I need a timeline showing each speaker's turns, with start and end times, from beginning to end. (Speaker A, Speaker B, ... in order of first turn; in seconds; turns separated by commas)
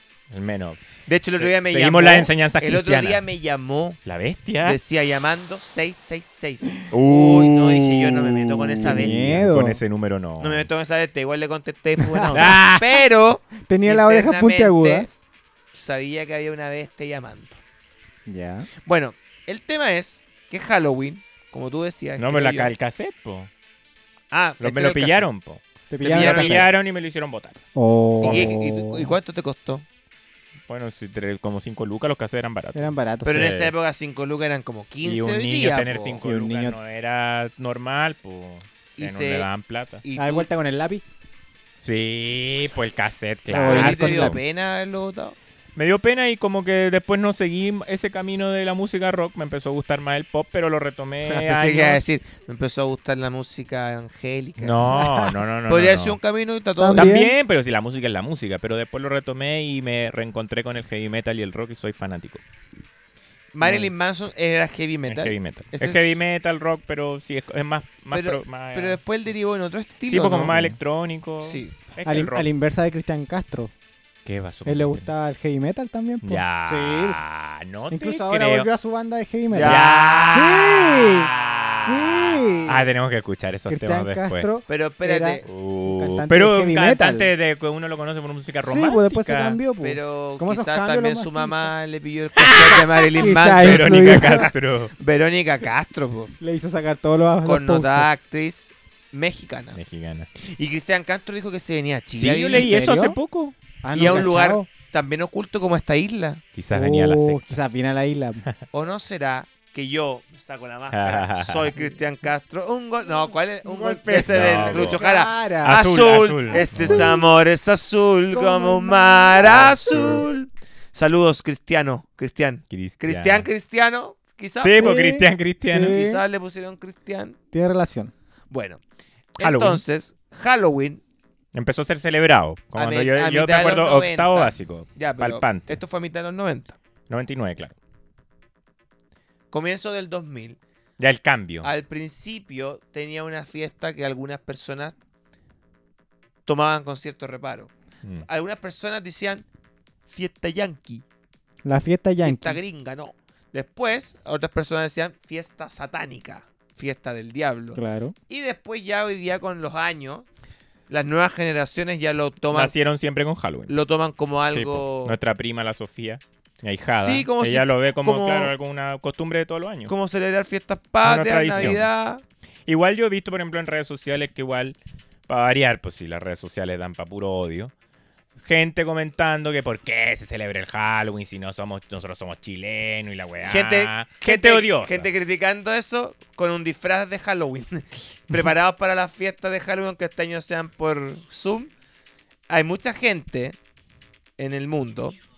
Speaker A: 0.3-0.8, Speaker B: 1.1-4.0, Speaker A: 1.4-3.2, Speaker A: 4.0-4.8, Speaker B: 4.6-9.1, Speaker A: 6.9-10.7, Speaker C: 8.8-9.8, Speaker B: 10.4-15.1, Speaker C: 12.0-12.4, Speaker A: 12.3-13.0, Speaker C: 13.6-15.2, Speaker B: 15.7-17.6, Speaker C: 18.2-18.7, Speaker B: 18.8-22.7, Speaker A: 22.2-23.5, Speaker B: 24.3-25.3, Speaker A: 24.6-27.6, Speaker C: 25.9-26.7, Speaker B: 26.0-26.7, Speaker C: 27.7-29.1, Speaker B: 28.2-29.8, Speaker A: 28.2-28.5, Speaker A: 30.7-33.7, Speaker C: 32.7-33.4, Speaker B: 33.2-36.2, Speaker A: 35.0-40.0, Speaker C: 36.2-36.8, Speaker B: 39.0-39.5, Speaker B: 40.0-40.5, Speaker C: 40.1-41.0, Speaker A: 41.8-44.5, Speaker C: 43.5-44.4, Speaker B: 43.5-45.4, Speaker A: 45.8-52.0, Speaker B: 51.2-55.0, Speaker A: 54.6-56.2, Speaker C: 54.9-55.3, Speaker B: 55.7-57.2, Speaker C: 56.8-57.3, Speaker A: 56.9-62.4, Speaker B: 63.5-66.1, Speaker A: 63.6-63.9, Speaker A: 65.1-69.0, Speaker B: 68.1-70.6, Speaker A: 70.1-72.5, Speaker C: 70.4-70.8, Speaker B: 71.4-71.7, Speaker C: 72.0-73.7, Speaker A: 74.2-75.1, Speaker C: 74.7-77.2, Speaker A: 76.2-78.7, Speaker C: 77.9-82.9, Speaker B: 79.5-81.8, Speaker A: 79.6-84.5, Speaker C: 83.7-87.3, Speaker B: 84.7-85.4, Speaker A: 85.4-89.6, Speaker C: 88.6-91.7, Speaker B: 89.8-96.3, Speaker A: 92.3-94.9, Speaker C: 93.2-94.5, Speaker C: 96.4-98.1, Speaker B: 97.4-99.8, Speaker A: 99.7-100.3, Speaker B: 100.3-102.6, Speaker A: 102.2-104.3, Speaker C: 102.5-103.2, Speaker C: 103.8-104.7, Speaker B: 103.9-106.4, Speaker A: 106.5-107.6, Speaker C: 106.7-108.4, Speaker B: 108.7-125.0, Speaker A: 110.9-111.7, Speaker C: 113.6-115.8, Speaker A: 114.2-115.0, Speaker A: 115.6-117.1, Speaker C: 116.5-117.3, Speaker C: 118.3-120.2, Speaker A: 119.8-120.1, Speaker A: 122.7-123.5, Speaker A: 124.6-126.0, Speaker C: 124.8-126.2, Speaker B: 125.8-127.4, Speaker C: 127.5-128.1, Speaker B: 128.5-128.8, Speaker B: 129.3-131.0, Speaker A: 129.4-129.8, Speaker A: 131.5-135.8, Speaker B: 132.7-136.8, Speaker A: 137.1-137.8, Speaker B: 139.5-140.6, Speaker A: 141.0-141.7, Speaker B: 141.6-144.9, Speaker B: 146.4-147.7, Speaker B: 148.2-149.4, Speaker B: 150.1-151.0, Speaker C: 151.6-152.6, Speaker B: 152.2-160.2, Speaker C: 157.7-158.2, Speaker B: 160.9-162.7, Speaker A: 162.5-163.8, Speaker B: 163.7-165.2, Speaker A: 164.5-169.9, Speaker B: 166.9-168.5, Speaker B: 169.9-172.2, Speaker A: 171.0-171.9, Speaker A: 172.7-174.8, Speaker A: 175.3-177.7, Speaker A: 178.4-185.1, Speaker B: 183.4-191.7, Speaker B: 192.5-193.6, Speaker B: 194.4-195.2